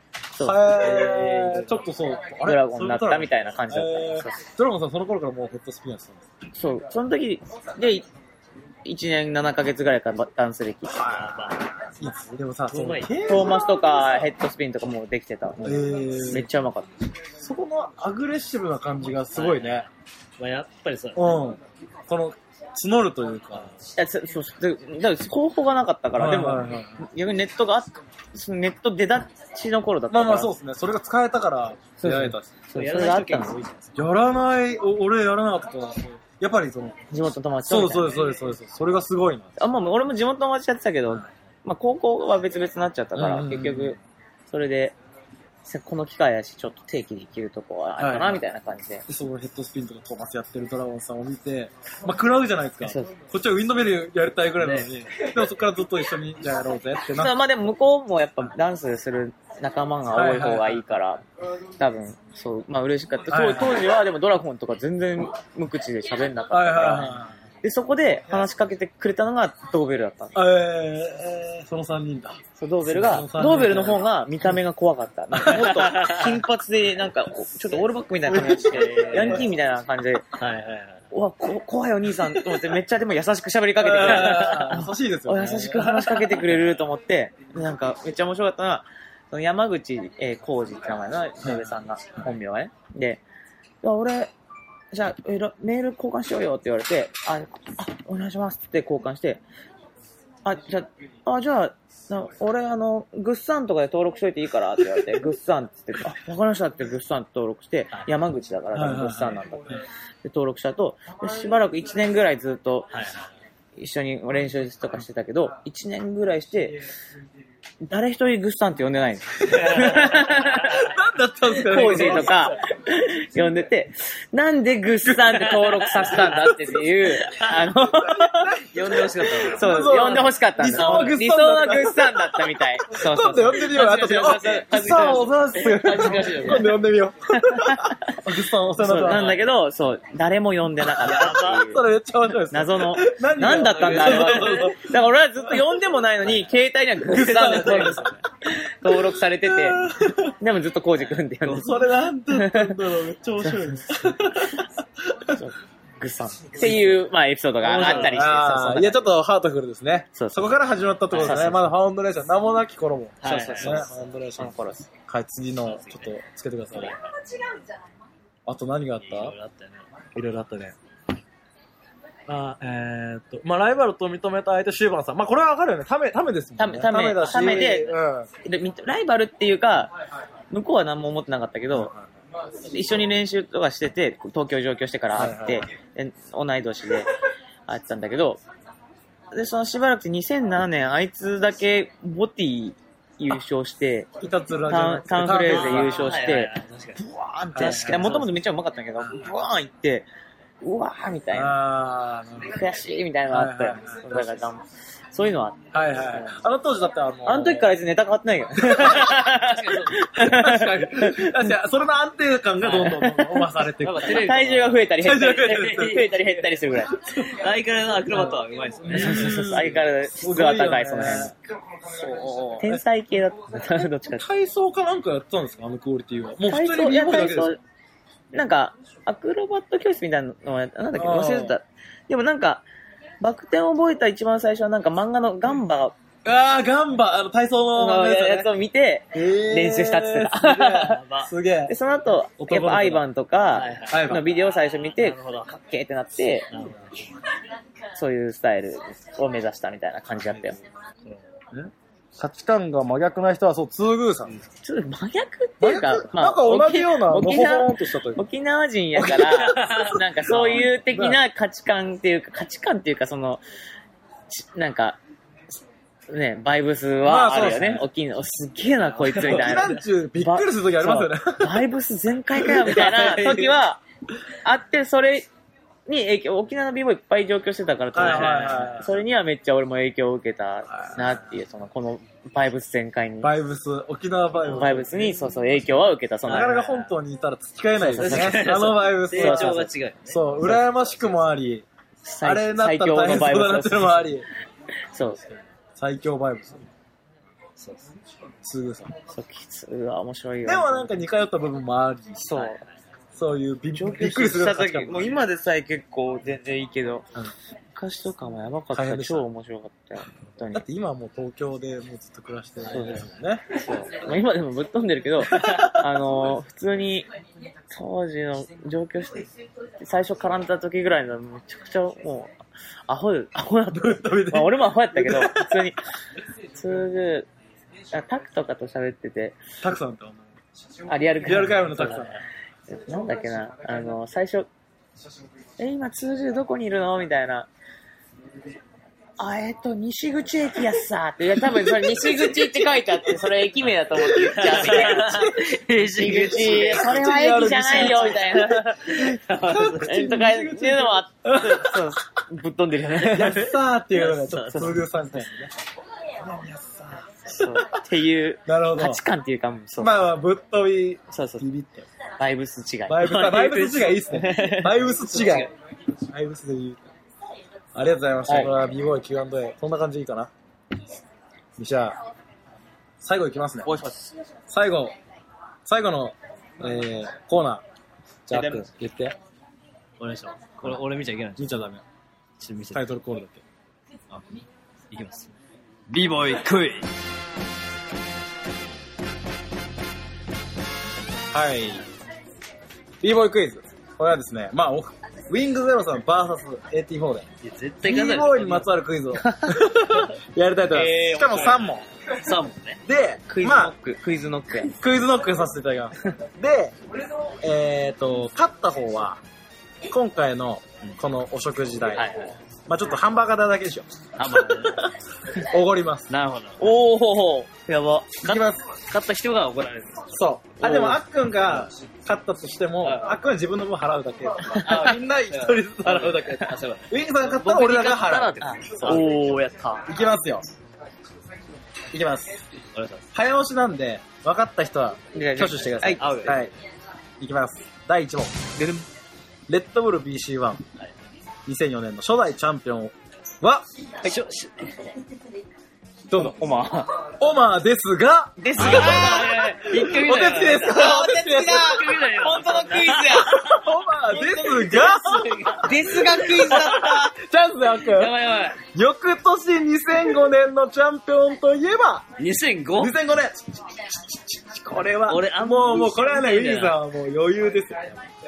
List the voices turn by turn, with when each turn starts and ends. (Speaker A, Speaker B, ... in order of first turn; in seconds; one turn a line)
Speaker A: 0.4-6.2
Speaker B: 0.7-1.8
Speaker C: 2.4-4.4
Speaker C: 6.5-8.1
Speaker C: 8.8-11.2
Speaker A: 10.9-11.4
Speaker B: 10.9-11.7
Speaker A: 12.0-13.8
Speaker B: 12.7-13.1
Speaker C: 13.2-16.9
Speaker A: 15.6-16.5
Speaker A: 17.4-19.9
Speaker B: 19.3-19.8
Speaker B: 20.4-21.3
Speaker A: 21.1-23.7
Speaker C: 23.9-30.5
Speaker A: 26.2-27.0
Speaker A: 30.1-32.6
Speaker C: 32.0-33.6
Speaker B: 32.7-33.9
Speaker A: 34.0-37.0
Speaker C: 37.1-38.2
Speaker A: 37.6-39.5
Speaker C: 39.6-45.0
Speaker A: 43.1-44.0
Speaker C: 45.6-49.0
Speaker A: 48.0-48.4
Speaker A: 49.1-57.3
Speaker C: 52.8-53.1
Speaker B: 54.6-54.9
Speaker C: 57.1-61.2
Speaker A: 60.1-60.8
Speaker C: 61.8-70.4
Speaker A: 63.3-63.9
Speaker A: 66.5-67.3
Speaker A: 70.3-74.0
Speaker C: 72.5-80.3
Speaker A: 75.4-75.8
Speaker B: 75.6-76.4
Speaker A: 78.2-79.5
Speaker B: 78.5-79.5
Speaker B: 80.3-81.0
Speaker C: 81.1-93.2
Speaker A: 83.8-86.2
Speaker B: 84.3-84.8
Speaker A: 91.4-91.7
Speaker C: 93.8-94.3
Speaker C: 94.9-99.4
Speaker C: 100.4-113.0
Speaker A: 108.7-109.8
Speaker B: 112.9-113.3
Speaker C: 113.8-116.8
Speaker C: 117.8-120.9
Speaker B: 119.5-120.5
Speaker A: 119.7-122.5
Speaker C: 121.5-128.6
Speaker B: 121.7-122.5
Speaker B: 125.3-126.5
Speaker B: 127.2-127.5
Speaker A: 127.8-139.4
Speaker B: 128.7-131.1
Speaker C: 129.4-136.7
Speaker B: 133.7-134.6
Speaker B: 135.6-136.8
Speaker C: 137.3-138.2
Speaker C: 138.8-141.8
Speaker B: 139.0-139.4
Speaker B: 141.0-141.6
Speaker A: 141.0-144.9
Speaker C: 142.5-149.8
Speaker B: 143.4-144.7
Speaker A: 147.0-148.2
Speaker B: 147.5-148.1
Speaker A: 148.9-150.3
Speaker C: 150.4-152.8
Speaker A: 151.4-155.4
Speaker C: 153.4-153.8
Speaker C: 155.3-159.0
Speaker B: 157.6-158.2
Speaker A: 157.7-166.9
Speaker C: 160.1-160.6
Speaker C: 161.1-161.7
Speaker B: 161.1-161.5
Speaker B: 163.2-163.9
Speaker C: 163.6-164.9
Speaker B: 165.7-166.1
Speaker B: 166.7-167.1
Speaker A: 168.4-169.3
Speaker B: 169.0-169.8
Speaker A: 170.1-170.8
Speaker A: 172.3-178.3
Speaker C: 176.6-179.9
Speaker C: 180.5-181.9
Speaker A: 181.7-182.1
Speaker C: 182.6-187.1
Speaker A: 185.1-185.6
Speaker C: 187.7-188.4
Speaker C: 189.3-194.1
Speaker A: 194.2-196.2
Speaker C: 194.7-200.1
Speaker B: 195.5-197.0
Speaker A: 197.5-198.2
Speaker B: 197.6-198.2
Speaker C: 200.6-201.6
Speaker A: 201.3-202.6
Speaker C: 202.5-206.3
Speaker A: 203.3-204.4
Speaker A: 205.7-207.7
Speaker C: 207.2-211.5
Speaker A: 208.7-209.0
Speaker B: 208.8-210.1
Speaker A: 210.1-214.3
Speaker B: 212.6-213.0
Speaker C: 212.7-213.4
Speaker B: 213.8-216.5
Speaker C: 214.0-216.9
Speaker A: 215.0-216.0
Speaker A: 217.0-217.3
Speaker B: 217.2-219.5
Speaker A: 218.1-221.3
Speaker C: 218.9-221.3
Speaker C: 222.2-224.3
Speaker A: 222.5-222.8
Speaker A: 224.1-227.5
Speaker C: 226.4-227.6
Speaker C: 228.3-232.6
Speaker A: 230.9-231.6
Speaker C: 233.2-235.9
Speaker A: 236.2-238.5
Speaker C: 237.8-241.0
Speaker A: 239.1-241.7
Speaker B: 240.8-241.3
Speaker C: 241.7-246.5
Speaker A: 242.4-243.0
Speaker B: 243.5-244.2
Speaker A: 243.9-244.3
Speaker B: 245.0-245.5
Speaker B: 246.5-246.8
Speaker C: 247.9-250.6
Speaker A: 251.5-254.3
Speaker C: 254.6-263.4
Speaker A: 255.6-258.2
Speaker A: 259.0-261.2
Speaker B: 259.2-260.6
Speaker C: 264.3-265.0
Speaker C: 266.1-273.8
Speaker A: 267.0-267.8
Speaker A: 269.1-271.6
Speaker B: 269.1-269.6
Speaker A: 272.4-273.4
Speaker B: 272.7-273.5
Speaker C: 274.4-275.3
Speaker C: 275.9-283.3
Speaker A: 277.9-278.9
Speaker B: 278.0-278.9
Speaker A: 283.2-285.2
Speaker C: 284.4-286.6
Speaker A: 286.2-291.6
Speaker B: 286.2-286.9
Speaker C: 287.8-289.7
Speaker B: 287.9-290.4
Speaker C: 292.0-294.2
Speaker A: 292.2-294.3
Speaker C: 294.9-295.2
Speaker A: 295.8-296.7
Speaker B: 297.6-297.9
Speaker A: 298.4-298.9
Speaker C: 299.1-301.0
Speaker A: 300.4-302.4
Speaker C: 302.2-302.6
Speaker A: 303.1-305.2
Speaker C: 303.7-307.1
Speaker C: 307.7-310.6
Speaker A: 308.7-309.3
Speaker A: 310.5-313.4
Speaker C: 312.6-317.1
Speaker A: 315.2-315.8
Speaker C: 317.7-319.3
Speaker C: 319.8-322.3
Speaker C: 322.9-325.8
Speaker A: 323.7-325.7
Speaker C: 326.5-327.3
Speaker C: 327.9-329.4
Speaker A: 329.6-330.3
Speaker C: 330.9-332.1
Speaker A: 331.2-332.2
Speaker B: 331.8-332.1
Speaker C: 332.7-334.5
Speaker C: 335.6-337.5
Speaker C: 339.2-349.1
Speaker A: 341.4-342.6
Speaker A: 344.0-345.5
Speaker B: 344.4-350.1
Speaker A: 346.0-351.9
Speaker C: 349.8-353.5
Speaker A: 353.0-355.5
Speaker B: 353.9-354.7
Speaker C: 354.5-355.2
Speaker A: 356.2-357.7
Speaker C: 357.2-359.9
Speaker A: 358.5-359.0
Speaker A: 359.8-361.9
Speaker C: 361.1-361.4
Speaker C: 362.2-363.2
Speaker A: 362.9-365.5
Speaker B: 363.0-364.1
Speaker C: 364.1-364.9
Speaker B: 365.2-365.4
Speaker A: 366.1-366.8
Speaker A: 367.7-370.3
Speaker C: 368.3-368.5
Speaker A: 371.6-372.0
Speaker A: 373.0-373.8
Speaker C: 373.6-374.1
Speaker A: 374.5-374.9
Speaker A: 375.6-377.6
Speaker A: 378.3-379.1
Speaker C: 378.3-378.7
Speaker B: 380.0-381.5
Speaker A: 381.4-381.8
Speaker B: 382.4-383.0
Speaker A: 382.7-383.4
Speaker B: 384.9-385.3
Speaker B: 385.9-386.9
Speaker A: 391.3-391.9
Speaker A: 393.0-397.3
Speaker B: 397.4-398.7
Speaker A: 397.8-401.8
Speaker C: 399.2-399.6
Speaker C: 400.7-401.6
Speaker B: 402.1-402.8
Speaker A: 402.8-403.7
Speaker C: 403.3-404.8
Speaker A: 404.8-406.7
Speaker A: 407.4-409.2
Speaker A: 409.9-412.1
Speaker B: 411.9-412.4
Speaker A: 412.7-413.9
Speaker B: 414.1-414.9
Speaker A: 414.4-416.1
Speaker B: 416.1-416.7
Speaker C: 416.6-418.2
Speaker A: 418.2-418.7
Speaker B: 418.2-420.1
Speaker A: 420.1-429.1
Speaker C: 420.6-420.9
Speaker B: 422.8-423.1
Speaker B: 424.4-429.9
Speaker C: 424.6-424.9
Speaker C: 428.4-429.5
Speaker A: 429.8-430.5
Speaker A: 431.9-432.4
Speaker B: 432.7-433.1
Speaker A: 433.1-436.5
Speaker C: 435.1-436.0
Speaker B: 436.0-436.5
Speaker A: 437.2-438.3
Speaker C: 438.6-438.8
Speaker A: 439.5-440.6
Speaker A: 441.4-443.6
Speaker B: 444.0-444.9
Speaker A: 446.1-446.4
Speaker C: 446.1-447.0
Speaker A: 447.2-449.2
Speaker C: 448.4-453.4
Speaker B: 448.6-453.6
Speaker A: 449.7-451.8
Speaker A: 453.1-462.1
Speaker C: 454.1-457.1
Speaker B: 454.6-457.0
Speaker B: 457.8-458.6
Speaker B: 462.2-462.9
Speaker A: 462.8-467.9
Speaker B: 465.1-466.8